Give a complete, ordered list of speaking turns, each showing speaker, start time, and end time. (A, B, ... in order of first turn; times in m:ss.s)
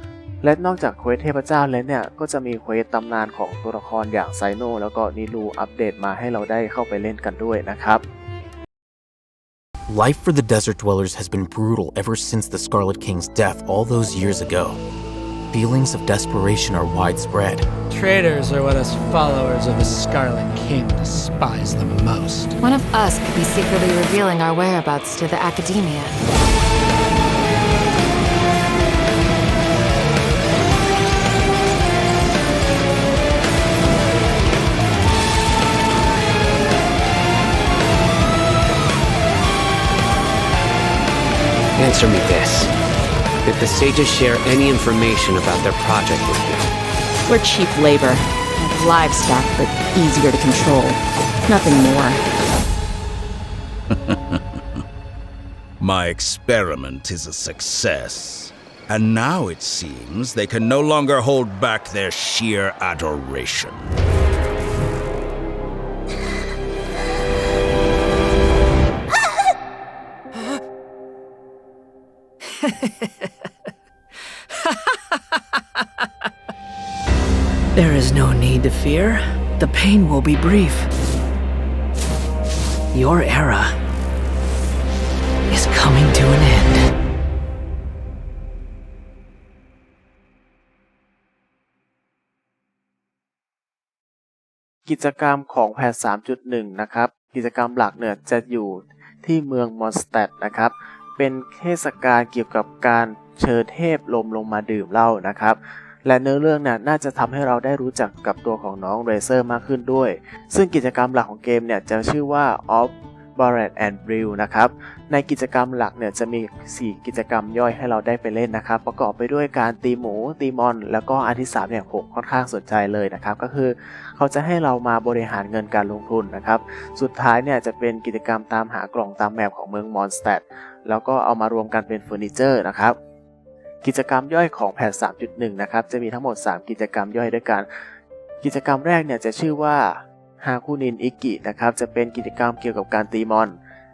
0:00.4-0:08.0 A
0:09.9-0:14.8 B
0:15.5-0:17.6 B
0:17.9-0:22.6 C
0:22.6-0:26.2 D
0:41.9-0:42.5 E
0:43.5-0:44.6 E
0:46.1-0:46.4 E
0:47.3-0:52.2 F
0:53.9-0:54.8 G
0:55.8-1:03.9 G
1:17.7-1:20.9 H
1:22.9-1:23.8 H
1:25.5-1:26.9 H
1:34.8-2:13.0 A
2:13.8-2:17.7 A
2:18.4-2:23.6 A